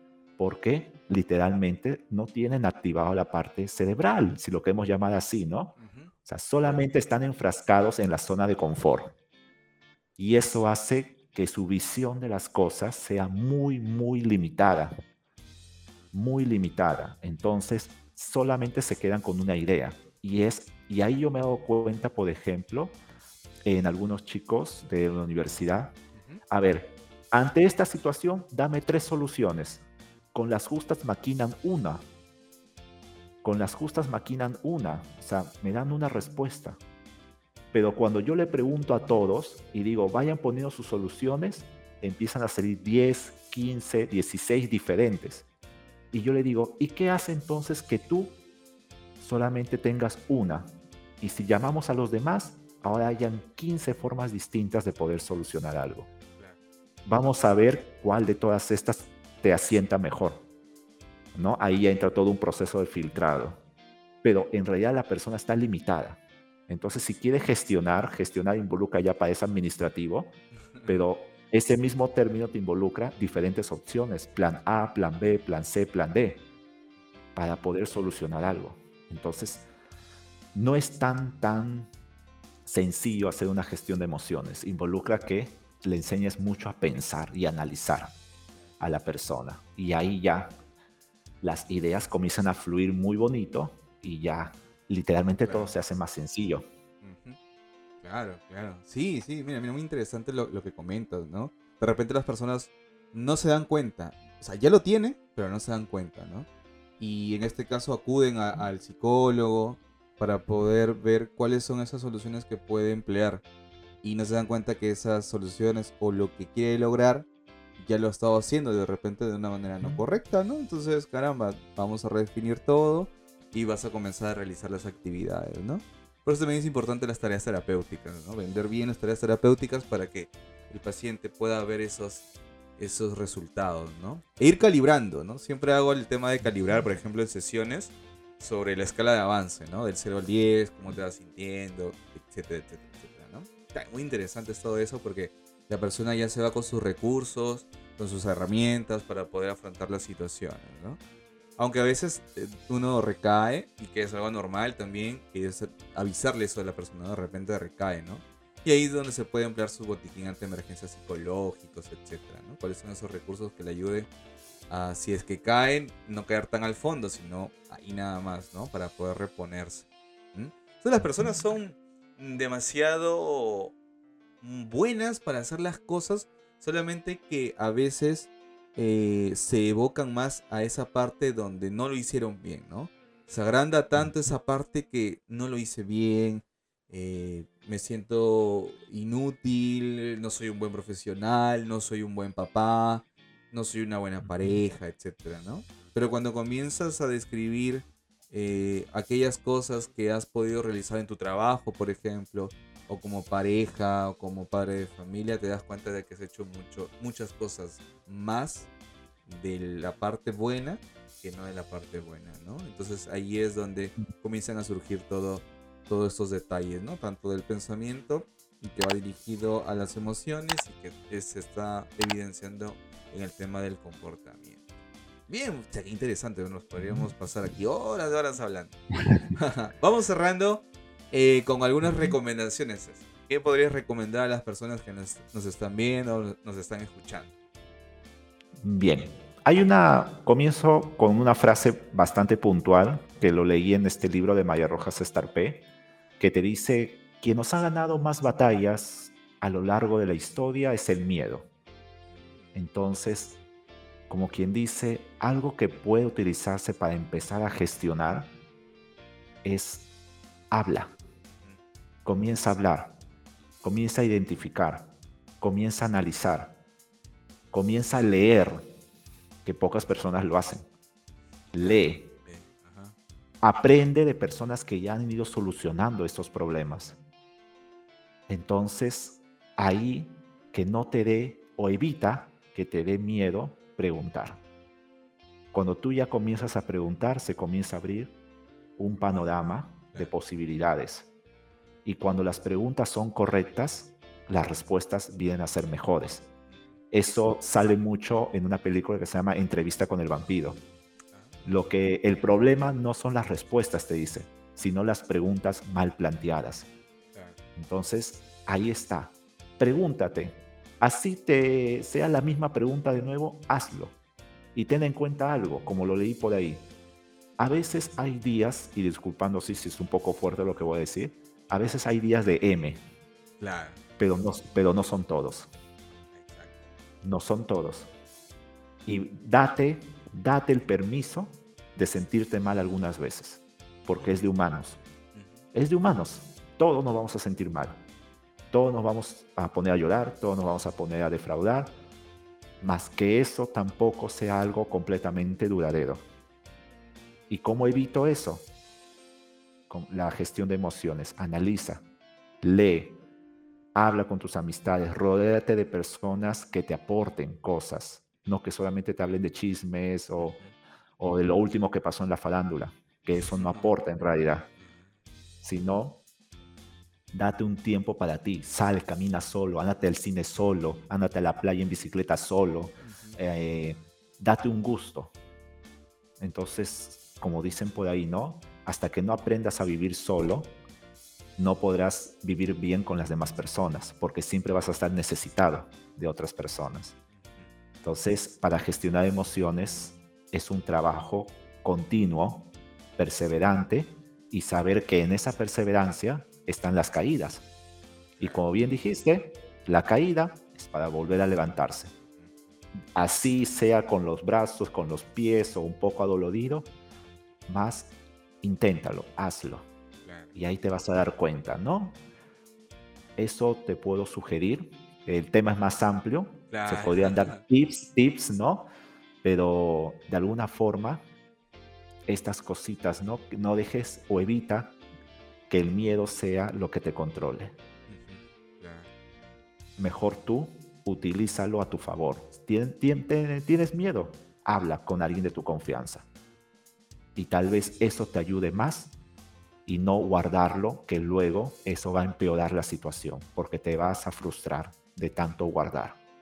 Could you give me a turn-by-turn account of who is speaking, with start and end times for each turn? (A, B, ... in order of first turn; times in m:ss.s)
0:00.4-0:09.1 A
0:05.8-0:06.1 B
0:10.2-0:14.9 A
0:16.1-0:23.0 A
0:23.6-0:26.0 A
0:26.2-0:26.4 B
0:26.5-0:29.8 A
0:30.3-0:32.0 A
0:33.4-0:36.8 A
0:37.7-0:45.4 A
0:46.1-0:48.4 A
0:49.2-0:56.1 A
0:57.0-1:00.4 A
1:01.3-1:03.6 A
1:04.2-1:10.3 A
1:10.9-1:16.4 A
1:17.4-1:19.7 A
1:20.5-1:21.9 A
1:22.6-1:28.1 A
1:28.8-1:30.5 A
1:31.4-1:36.6 A
1:35.4-1:35.7 B
1:37.0-1:37.4 B
1:38.0-1:46.5 B
1:47.0-1:53.4 B
1:54.0-1:57.3 B
1:57.8-2:12.2 B
2:12.8-2:31.0 B
2:16.4-2:16.8 A
2:31.6-2:44.1 B
2:44.7-2:53.7 B
2:54.4-3:28.7 B
3:14.2-3:14.6 A
3:29.2-3:44.6 B
3:45.3-3:48.8 B
3:46.8-3:47.1 A
3:49.3-3:57.3 B
3:51.8-3:52.1 A
3:58.6-4:05.6 A
4:06.2-4:11.4 A
4:12.1-4:12.5 B
4:12.5-4:13.4 A
4:14.1-4:18.3 A
4:19.4-4:19.9 A
4:20.5-4:20.9 A
4:22.0-4:23.0 A
4:23.6-4:24.9 A
4:25.4-4:26.5 A
4:27.5-4:28.7 A
4:29.4-4:30.7 A
4:31.5-4:32.1 A
4:31.6-4:32.9 B
4:33.4-4:37.0 A
4:38.3-4:44.4 A
4:45.5-4:48.1 A
4:48.8-4:51.1 A
4:51.8-4:56.2 A
4:56.9-5:00.6 A
5:01.1-5:01.6 B
5:01.4-5:06.7 A
5:07.6-5:13.9 A
5:14.5-5:16.7 A
5:17.4-5:22.8 A
5:23.4-5:23.8 B
5:24.0-5:25.5 A
5:26.1-5:26.5 B
5:27.0-5:27.9 A
5:28.8-5:34.8 A
5:35.1-5:35.4 B
5:35.5-5:37.8 A
5:38.5-5:41.8 A
5:42.6-5:46.0 A
5:47.3-5:48.4 A
5:49.7-5:51.8 A
5:52.4-5:53.0 A
5:53.7-6:00.4 A
6:00.2-6:00.5 B
6:01.0-6:04.5 A
6:03.2-6:03.7 B
6:04.6-6:04.9 B
6:05.4-6:06.0 A
6:07.1-6:15.1 A
6:12.8-6:13.2 B
6:16.2-6:20.5 A
6:21.4-6:26.9 A
6:27.1-6:27.5 B
6:27.8-6:37.4 A
6:38.2-6:38.5 B
6:38.2-6:41.9 A
6:42.9-6:46.7 A
6:47.5-6:49.7 A
6:50.0-6:50.4 B
6:50.3-6:52.0 A
6:53.2-6:58.7 A
6:56.5-6:57.4 B
6:59.2-7:01.0 A
7:02.1-7:04.7 A
7:05.5-7:07.5 A
7:07.9-7:08.9 B
7:09.8-7:16.0 A
7:17.2-7:18.9 A
7:19.6-7:26.0 A